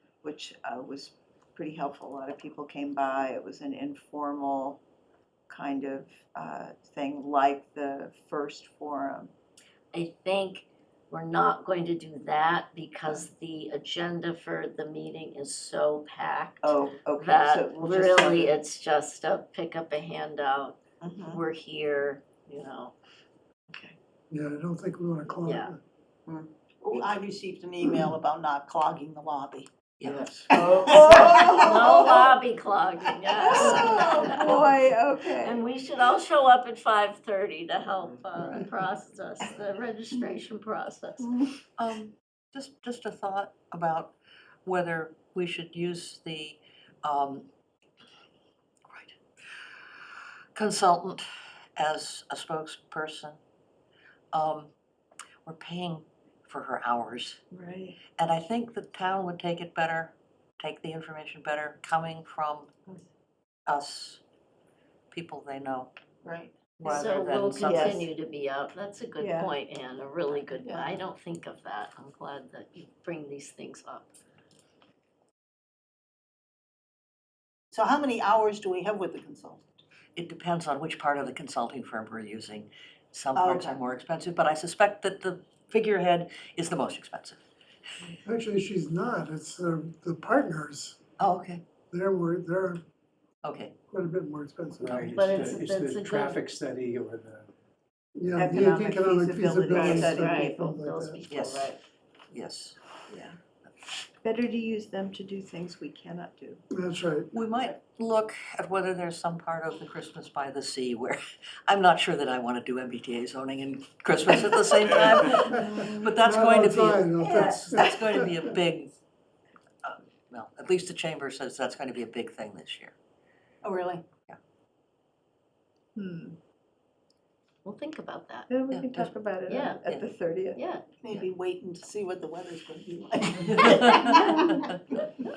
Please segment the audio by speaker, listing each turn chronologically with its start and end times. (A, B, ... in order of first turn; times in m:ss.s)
0:00.2-0:04.8 A
0:05.5-0:09.3 A
0:09.9-0:22.9 B
0:16.6-0:18.6 A
0:21.0-0:21.4 A
0:24.3-0:25.8 C
0:25.4-0:25.7 B
0:26.3-0:29.7 D
0:30.0-0:30.9 E
0:30.5-0:32.0 D
0:30.5-0:32.1 A
0:31.6-0:34.8 B
0:33.3-0:35.6 A
0:35.4-0:41.4 B
0:41.2-0:41.6 A
0:41.8-0:44.1 E
0:44.6-0:47.5 E
0:48.9-0:49.2 E
0:50.5-0:51.3 E
0:51.8-0:53.4 E
0:54.3-0:54.7 E
0:55.4-0:57.4 E
0:57.5-0:58.0 A
0:58.2-1:02.7 E
1:03.7-1:04.2 E
1:05.1-1:05.9 E
1:06.2-1:06.6 D
1:06.8-1:08.1 E
1:06.8-1:14.1 B
1:07.6-1:08.1 A
1:09.2-1:09.6 A
1:10.5-1:11.0 D
1:17.7-1:19.7 D
1:20.2-1:27.4 E
1:23.4-1:23.8 D
1:28.2-1:31.0 C
1:31.2-1:31.6 E
1:31.9-1:32.8 C
1:33.4-1:33.7 E
1:33.9-1:35.2 C
1:34.8-1:37.5 F
1:35.1-1:36.4 B
1:38.2-1:41.2 C
1:38.4-1:40.6 A
1:39.7-1:41.8 B
1:41.3-1:41.7 E
1:42.3-1:42.8 E
1:43.1-1:43.4 A
1:44.2-1:46.6 A
1:46.7-1:47.3 C
1:47.3-1:59.0 E
1:55.5-1:56.1 A
1:55.5-1:58.3 C
1:57.2-1:57.9 A
1:59.8-2:02.9 E
2:03.6-2:04.0 D
2:06.0-2:06.4 A
2:07.6-2:08.5 B
2:08.5-2:10.6 A
2:08.7-2:09.2 E
2:09.5-2:09.8 B
2:10.5-2:10.8 B
2:11.0-2:14.7 D
2:13.8-2:14.1 B